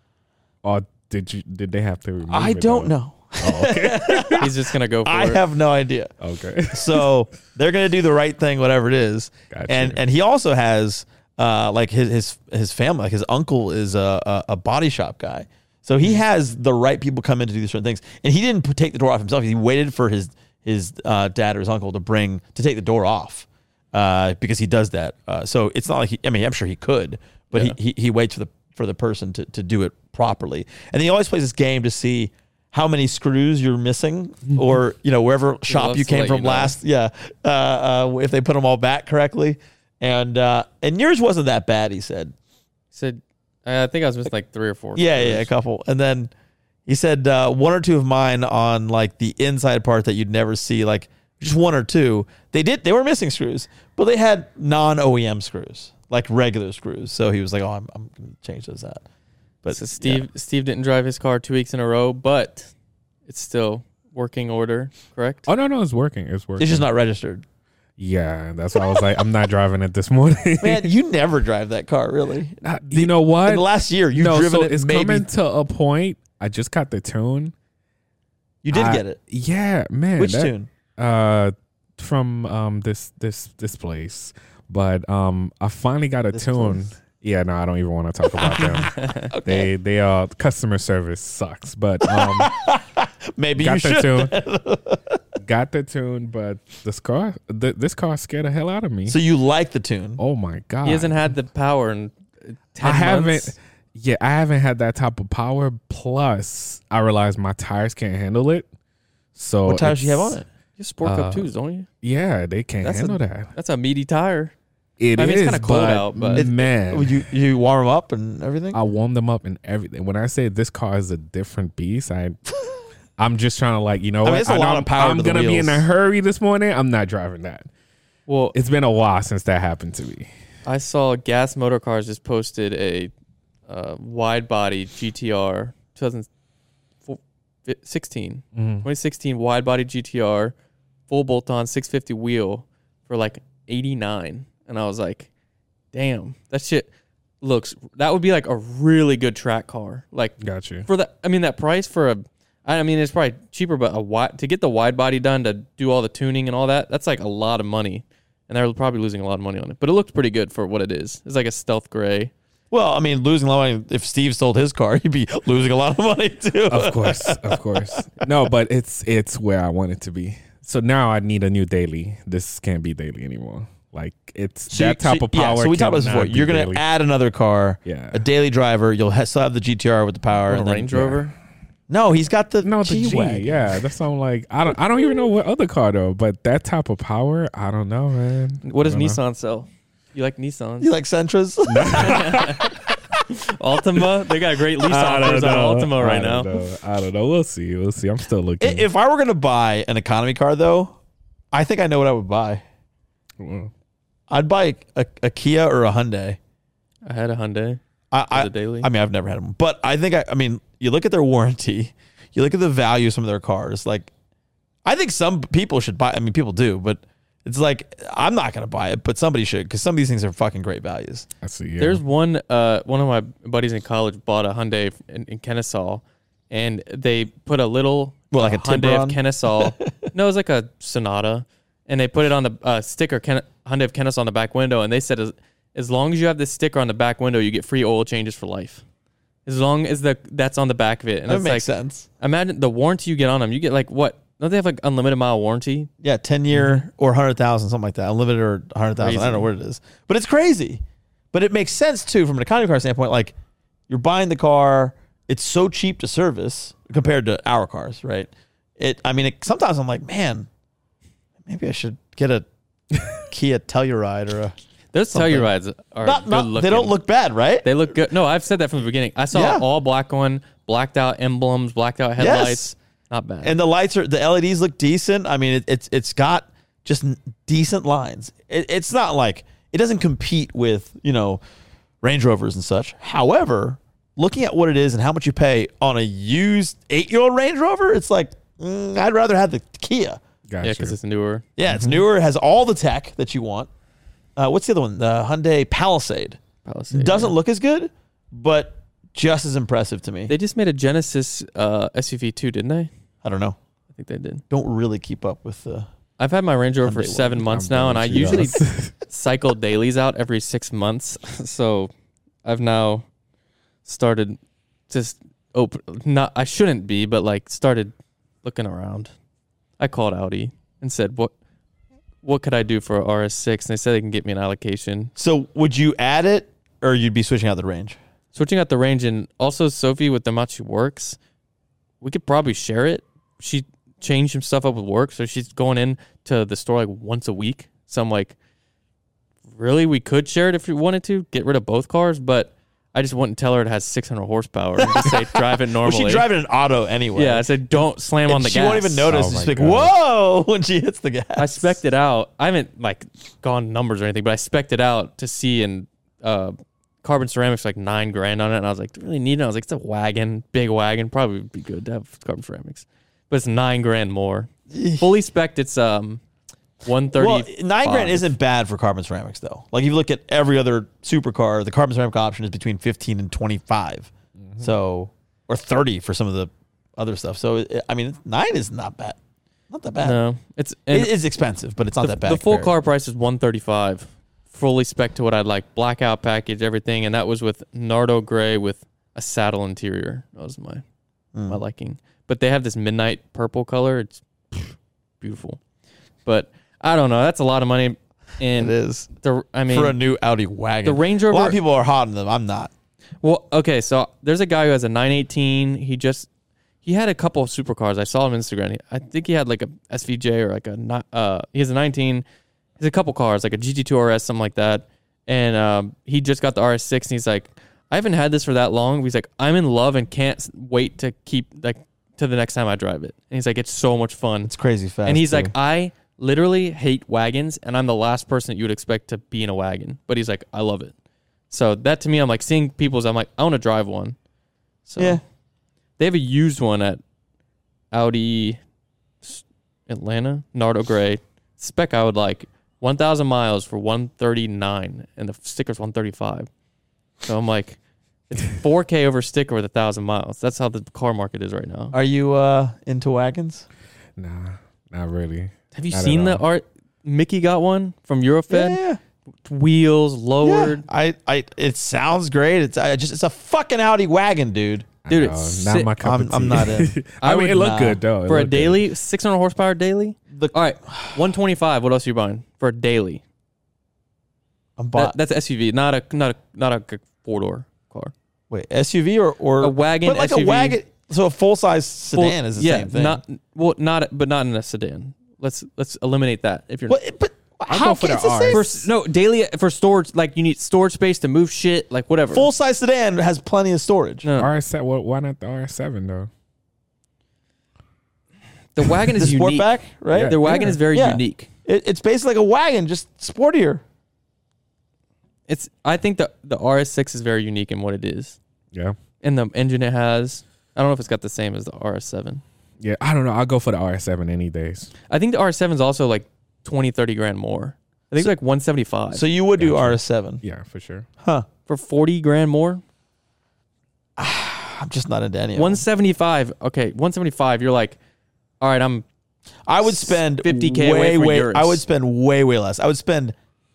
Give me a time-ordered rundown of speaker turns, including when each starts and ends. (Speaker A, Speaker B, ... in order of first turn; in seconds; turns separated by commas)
Speaker A: 0.6-4.5, Speaker B: 2.3-6.1, Speaker C: 4.4-5.4, Speaker A: 6.2-7.1, Speaker B: 6.7-42.3, Speaker A: 9.5-10.0, Speaker C: 35.7-36.8, Speaker C: 42.9-45.5, Speaker B: 45.0-46.3, Speaker B: 46.9-59.0, Speaker B: 59.6-60.3, Speaker C: 59.7-62.7, Speaker C: 63.3-65.5, Speaker A: 65.5-66.9, Speaker B: 66.6-67.4, Speaker A: 68.0-70.9, Speaker B: 70.6-75.3, Speaker A: 72.6-77.5, Speaker B: 78.6-79.2, Speaker A: 78.7-92.5, Speaker B: 80.2-80.7, Speaker B: 86.3-86.8, Speaker C: 88.8-89.3, Speaker B: 89.3-89.7, Speaker B: 92.0-95.2, Speaker A: 93.6-94.4, Speaker A: 95.4-99.2, Speaker B: 99.1-100.2, Speaker A: 100.2-101.3, Speaker C: 100.8-103.5, Speaker A: 102.8-108.7, Speaker A: 109.3-110.4, Speaker B: 109.7-110.5, Speaker C: 110.8-111.9, Speaker A: 111.0-111.5, Speaker A: 112.0-113.5, Speaker C: 112.8-114.5, Speaker A: 115.0-117.3, Speaker C: 115.2-116.5, Speaker B: 116.3-118.8, Speaker A: 118.7-122.4, Speaker A: 123.2-127.7, Speaker B: 124.2-125.9, Speaker C: 128.3-128.6, Speaker A: 128.5-130.3, Speaker C: 130.7-133.1, Speaker C: 133.7-136.3, Speaker C: 137.1-140.5, Speaker A: 138.6-138.9, Speaker C: 141.1-145.3, Speaker C: 145.9-146.9, Speaker C: 147.4-162.3, Speaker A: 150.4-150.9, Speaker B: 162.7-168.2, Speaker A: 166.7-176.8, Speaker B: 174.7-181.2, Speaker A: 177.8-178.2, Speaker C: 180.5-181.3, Speaker B: 181.9-183.7, Speaker A: 182.6-189.2, Speaker C: 188.7-190.9, Speaker B: 190.8-192.5, Speaker A: 191.7-192.7, Speaker C: 192.0-196.5, Speaker B: 194.8-195.7, Speaker A: 194.9-198.9, Speaker B: 198.6-201.0, Speaker B: 201.5-202.6, Speaker A: 203.4-203.7, Speaker B: 204.3-206.4, Speaker C: 207.1-208.9, Speaker B: 208.1-214.1, Speaker B: 214.8-221.3, Speaker A: 221.4-222.0, Speaker C: 221.8-238.8, Speaker B: 228.3-230.1, Speaker C: 239.5-241.7, Speaker B: 241.3-242.1, Speaker C: 242.2-245.9, Speaker B: 246.0-250.8, Speaker C: 249.0-249.5, Speaker B: 251.3-253.3, Speaker B: 253.9-260.5, Speaker B: 261.4-262.5, Speaker B: 263.2-264.6, Speaker C: 264.9-266.9, Speaker B: 265.1-265.5, Speaker B: 266.0-267.7, Speaker C: 267.6-273.6, Speaker B: 269.3-269.7, Speaker B: 272.2-272.7, Speaker B: 273.4-281.4, Speaker B: 282.0-290.2, Speaker A: 290.5-291.0, Speaker C: 290.6-291.5, Speaker B: 291.6-293.7, Speaker A: 291.7-292.0, Speaker B: 294.4-296.4, Speaker C: 296.6-297.4, Speaker B: 296.9-300.3, Speaker C: 300.3-302.9, Speaker B: 303.2-303.6, Speaker C: 303.9-304.4, Speaker B: 304.5-305.9, Speaker C: 306.2-311.9, Speaker B: 306.8-307.5, Speaker A: 307.4-308.9, Speaker B: 308.1-308.6, Speaker C: 312.4-313.1, Speaker C: 313.9-314.4, Speaker C: 314.9-317.9, Speaker C: 318.4-319.1, Speaker C: 319.8-321.3, Speaker C: 322.2-325.1, Speaker B: 325.2-328.0, Speaker C: 328.3-331.2, Speaker C: 332.0-338.4, Speaker C: 339.5-346.3, Speaker B: 344.8-347.5, Speaker C: 347.1-349.1, Speaker B: 348.3-351.8, Speaker A: 349.1-349.9, Speaker C: 351.4-366.2, Speaker B: 364.7-365.1, Speaker C: 366.8-368.3, Speaker B: 367.2-379.2, Speaker B: 379.7-380.2, Speaker C: 380.0-381.1, Speaker B: 380.9-382.7, Speaker C: 382.0-390.8, Speaker B: 391.4-391.6, Speaker C: 391.5-395.6, Speaker C: 396.3-400.0, Speaker B: 398.6-399.1, Speaker B: 399.7-402.7, Speaker C: 400.8-401.6, Speaker C: 403.2-406.3, Speaker C: 406.8-412.2, Speaker C: 412.8-424.5, Speaker B: 424.4-425.5, Speaker C: 425.1-430.9, Speaker C: 431.5-434.2, Speaker C: 434.9-435.2, Speaker B: 435.0-435.2, Speaker C: 436.0-437.0, Speaker C: 437.9-438.6, Speaker C: 439.2-446.5, Speaker C: 447.2-447.8, Speaker C: 448.3-451.9, Speaker B: 451.9-453.7, Speaker A: 454.2-456.4, Speaker C: 455.7-458.8, Speaker B: 458.5-459.0, Speaker C: 459.4-460.9, Speaker B: 460.4-464.9, Speaker A: 465.1-468.9, Speaker C: 465.1-465.9, Speaker B: 466.0-468.0, Speaker C: 467.2-467.7, Speaker C: 468.2-473.2, Speaker B: 470.3-471.2, Speaker B: 474.8-475.2, Speaker C: 474.9-478.1, Speaker B: 478.5-483.2, Speaker C: 479.6-480.8, Speaker C: 482.1-487.0, Speaker B: 486.9-488.9, Speaker A: 487.7-488.8, Speaker C: 488.5-492.5, Speaker B: 492.3-494.3, Speaker C: 494.2-494.5, Speaker A: 494.4-496.3, Speaker C: 498.8-501.5, Speaker B: 499.1-503.8, Speaker A: 500.1-500.8, Speaker C: 505.5-508.4, Speaker C: 509.2-512.4, Speaker A: 512.8-514.9, Speaker C: 515.1-519.2, Speaker B: 519.1-520.4, Speaker A: 519.6-521.1, Speaker B: 521.2-521.5, Speaker C: 521.7-522.8, Speaker B: 524.2-525.8, Speaker C: 525.6-528.0, Speaker C: 528.6-529.0, Speaker B: 529.7-533.4, Speaker C: 529.9-531.8